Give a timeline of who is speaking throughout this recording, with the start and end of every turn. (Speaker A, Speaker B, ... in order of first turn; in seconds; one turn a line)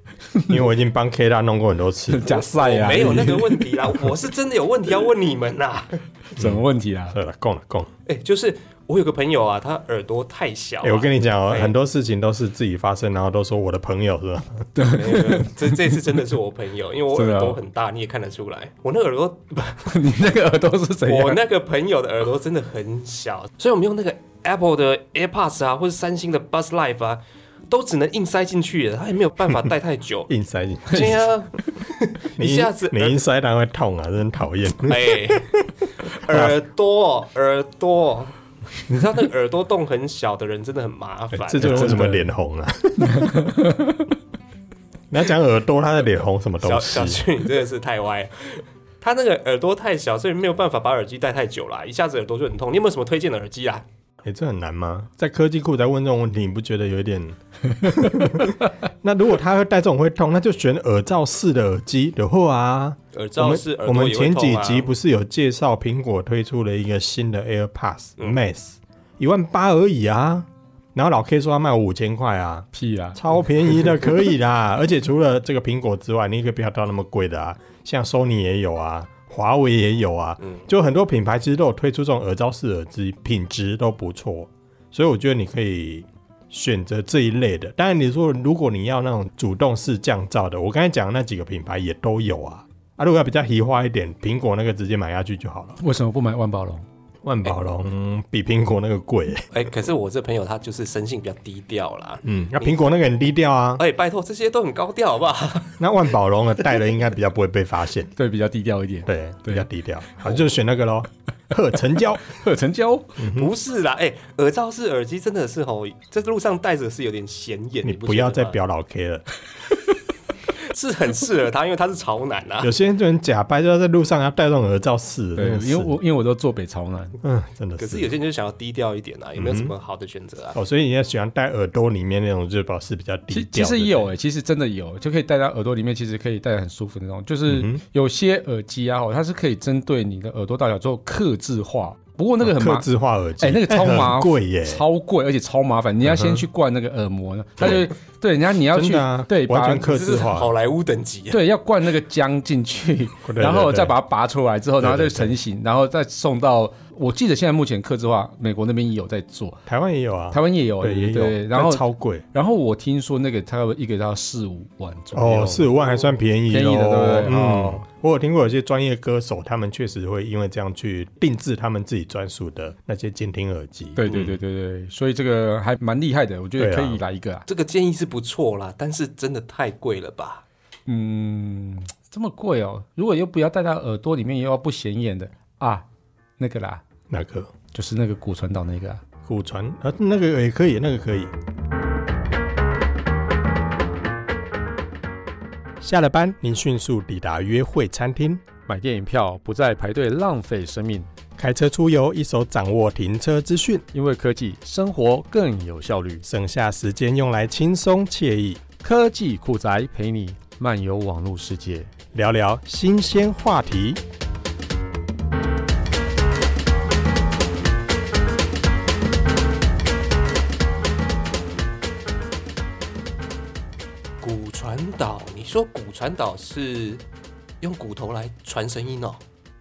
Speaker A: 0.3-0.6
Speaker B: 0.5-3.5
Speaker A: 2.1-3.8
Speaker C: 2.2-6.0
Speaker A: 6.4-7.2
Speaker B: 6.4-7.9
Speaker C: 8.1-11.7
Speaker B: 10.8-14.7
Speaker A: 14.8-15.9
Speaker C: 14.9-19.9
Speaker A: 17.1-17.6
Speaker A: 19.9-21.4
Speaker C: 21.1-30.3
Speaker B: 30.3-31.3
Speaker C: 30.9-33.2
Speaker B: 32.4-35.7
Speaker C: 34.9-35.5
Speaker C: 36.1-42.0
Speaker B: 36.3-36.5
Speaker B: 41.4-43.5
Speaker A: 41.6-42.3
Speaker A: 43.0-44.1
Speaker B: 45.1-47.2
Speaker C: 46.6-53.9
Speaker B: 54.2-95.8
Speaker C: 63.1-64.9
Speaker A: 72.7-73.2
Speaker A: 95.8-96.8
Speaker B: 97.2-99.5
Speaker C: 99.5-102.9
Speaker B: 102.2-103.8
Speaker C: 103.8-105.8
Speaker B: 105.8-108.1
Speaker A: 108.2-109.7
Speaker B: 109.1-112.4
Speaker A: 112.2-113.2
Speaker B: 113.2-113.5
Speaker C: 113.3-118.6
Speaker B: 117.8-119.2
Speaker C: 120.5-122.7
Speaker B: 122.6-125.9
Speaker A: 125.4-127.2
Speaker B: 127.2-128.1
Speaker C: 127.8-130.6
Speaker B: 129.4-129.7
Speaker B: 130.5-134.1
Speaker A: 133.3-142.9
Speaker B: 137.5-137.8
Speaker B: 142.4-144.8
Speaker A: 143.4-150.0
Speaker B: 146.0-146.4
Speaker B: 148.7-150.5
Speaker C: 149.9-151.4
Speaker A: 151.3-159.7
Speaker B: 153.2-153.9
Speaker B: 154.8-155.3
Speaker B: 159.7-162.2
Speaker A: 160.3-165.7
Speaker B: 165.1-174.1
Speaker A: 166.5-167.8
Speaker A: 174.0-177.4
Speaker C: 174.1-174.4
Speaker B: 176.6-177.0
Speaker C: 177.5-180.4
Speaker A: 180.9-185.8
Speaker A: 186.4-186.8
Speaker B: 187.1-187.5
Speaker A: 187.7-189.0
Speaker B: 189.2-191.3
Speaker B: 195.8-198.4
Speaker A: 198.7-201.1
Speaker B: 201.4-203.9
Speaker A: 203.9-206.3
Speaker B: 206.2-208.6
Speaker A: 208.8-211.9
Speaker B: 212.1-214.0
Speaker C: 224.2-227.0
Speaker C: 227.6-229.2